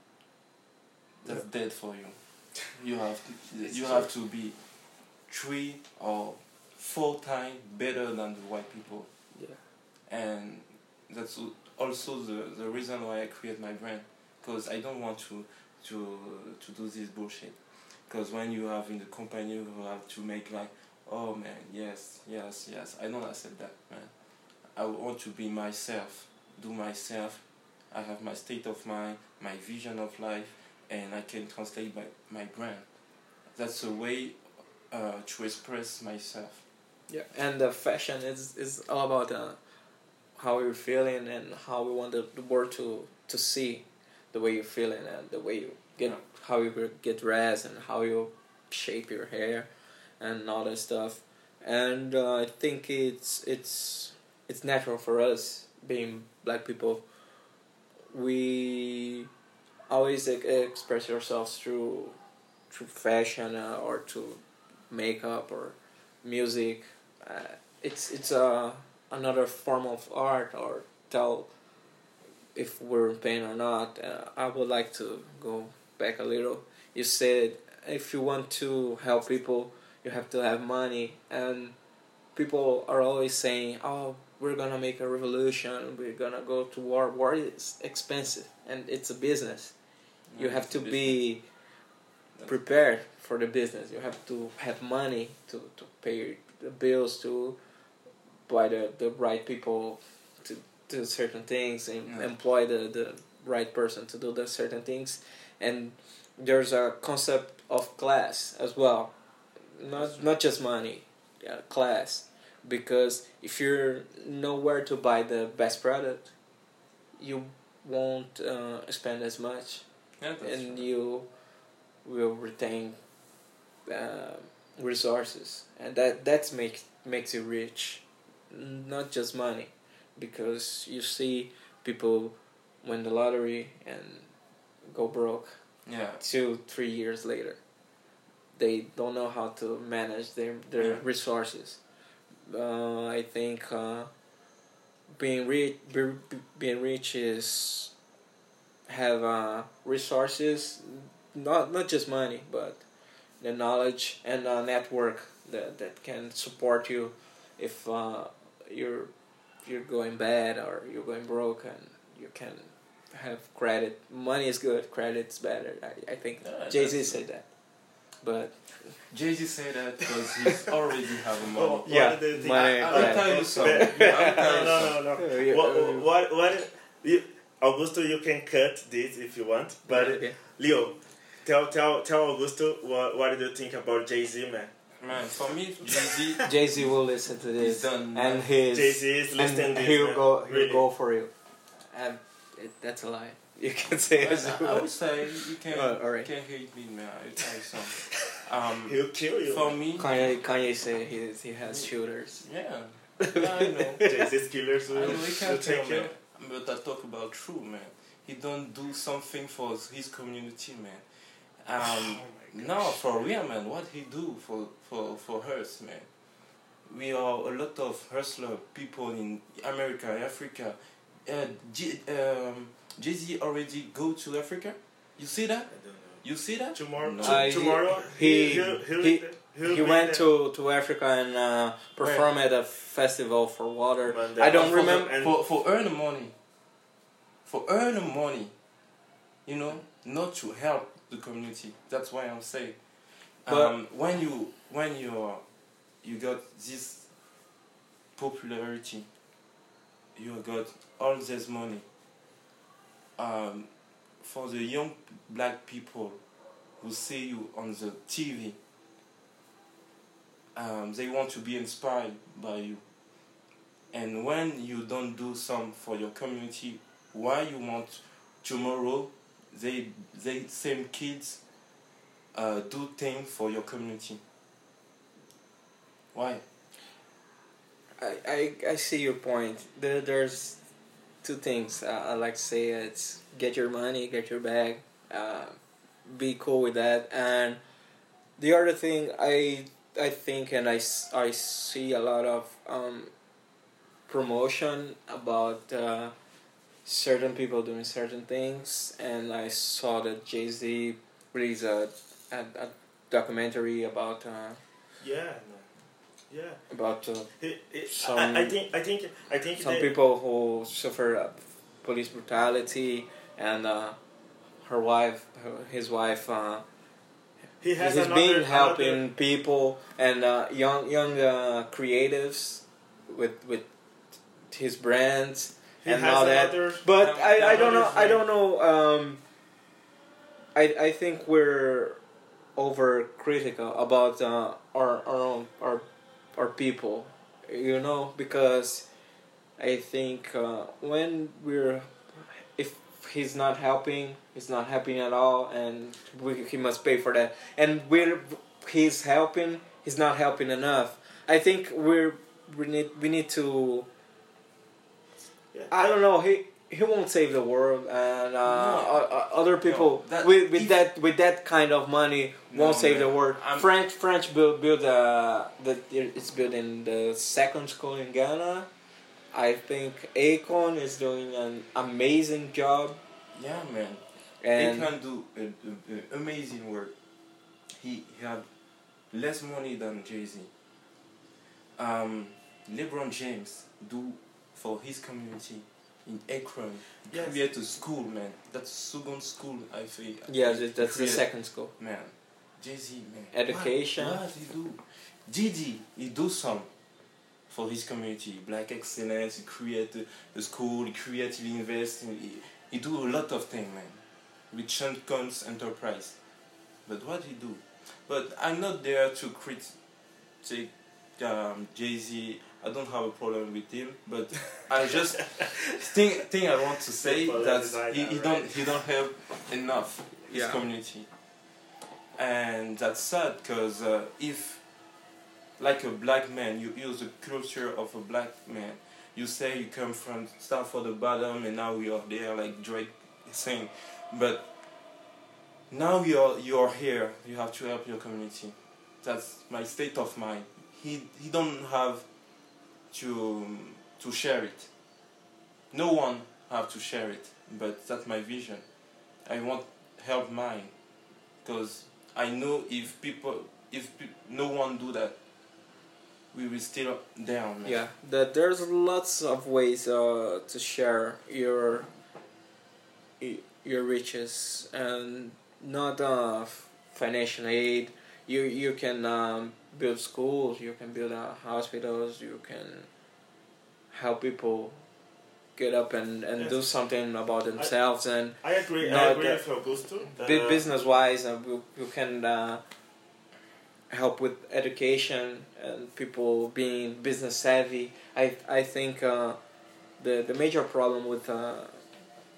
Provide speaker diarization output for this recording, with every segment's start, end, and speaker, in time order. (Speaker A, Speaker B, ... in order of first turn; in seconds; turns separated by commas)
Speaker A: 1.2-9.1, Speaker B: 3.7-4.1, Speaker B: 9.3-9.6, Speaker A: 10.1-24.1, Speaker A: 24.7-36.6, Speaker B: 37.1-39.6, Speaker B: 40.4-57.1, Speaker B: 58.1-59.3, Speaker B: 59.9-62.2, Speaker B: 62.7-71.5, Speaker B: 72.5-81.8, Speaker B: 82.3-89.8, Speaker A: 90.3-91.3, Speaker B: 90.3-91.6, Speaker A: 92.3-92.6, Speaker B: 92.5-97.6, Speaker B: 98.5-116.4, Speaker A: 102.0-102.3, Speaker A: 109.9-110.3, Speaker B: 117.2-121.3, Speaker A: 120.2-120.9, Speaker B: 122.0-123.0, Speaker B: 123.8-134.3, Speaker B: 134.8-135.6, Speaker A: 135.8-136.2, Speaker B: 136.2-137.6, Speaker B: 138.5-141.8, Speaker A: 140.8-141.0, Speaker B: 142.4-144.1, Speaker B: 145.1-147.9, Speaker B: 148.9-152.8, Speaker B: 153.4-169.0, Speaker A: 166.4-167.2, Speaker A: 169.1-175.0, Speaker C: 171.6-184.7, Speaker B: 171.9-176.1, Speaker B: 179.9-180.4, Speaker A: 185.0-187.0, Speaker B: 186.5-196.3, Speaker A: 187.6-188.5, Speaker C: 188.7-190.9, Speaker A: 194.2-200.2, Speaker C: 198.9-199.8, Speaker B: 200.0-202.5, Speaker A: 201.7-204.0, Speaker B: 203.2-204.1, Speaker C: 204.0-206.1, Speaker A: 204.9-216.1, Speaker C: 211.8-213.0, Speaker A: 216.9-227.9, Speaker C: 225.7-230.3, Speaker B: 227.2-235.1, Speaker A: 232.0-232.3, Speaker C: 234.1-235.3, Speaker A: 234.5-236.3, Speaker A: 237.4-238.6, Speaker A: 239.4-245.4, Speaker B: 243.5-243.8, Speaker A: 246.0-247.1, Speaker A: 248.2-249.1, Speaker A: 250.2-251.8, Speaker A: 253.2-256.2, Speaker A: 256.8-258.6, Speaker A: 260.5-262.8, Speaker A: 263.9-271.4, Speaker A: 272.3-274.2, Speaker A: 276.1-276.4, Speaker B: 278.0-280.6, Speaker B: 281.2-287.6, Speaker B: 288.4-293.1, Speaker B: 294.1-296.1, Speaker B: 296.8-304.6, Speaker C: 305.0-306.6, Speaker B: 306.7-308.6, Speaker C: 307.4-309.9, Speaker B: 309.6-314.0, Speaker B: 314.6-316.6, Speaker C: 317.6-319.0, Speaker B: 317.8-323.7, Speaker B: 324.5-329.2, Speaker C: 325.8-328.2, Speaker A: 326.9-328.2, Speaker B: 330.6-332.0, Speaker B: 332.6-338.9, Speaker B: 339.6-353.9, Speaker C: 355.5-356.0, Speaker B: 355.7-368.7, Speaker A: 358.4-360.8, Speaker A: 362.5-363.7, Speaker B: 369.3-373.0, Speaker A: 373.3-376.9, Speaker B: 374.4-374.9, Speaker A: 377.8-378.5, Speaker A: 379.1-380.5, Speaker A: 381.8-396.7, Speaker C: 387.1-387.4, Speaker B: 390.3-391.7, Speaker B: 393.3-394.2, Speaker A: 397.5-406.2, Speaker A: 406.9-409.8, Speaker A: 410.4-421.1, Speaker C: 417.0-418.9, Speaker B: 420.3-420.6, Speaker A: 422.1-424.7, Speaker A: 425.6-434.5, Speaker A: 435.7-442.1, Speaker A: 442.9-444.7, Speaker A: 445.7-448.6, Speaker A: 449.2-450.7, Speaker A: 451.4-455.2, Speaker A: 456.3-457.8, Speaker B: 457.6-461.9, Speaker B: 463.2-472.9, Speaker B: 473.9-474.8, Speaker B: 475.6-479.4, Speaker C: 476.4-476.6, Speaker C: 477.6-477.8, Speaker C: 478.4-480.7, Speaker B: 480.1-482.6, Speaker B: 483.9-489.4, Speaker B: 490.0-491.9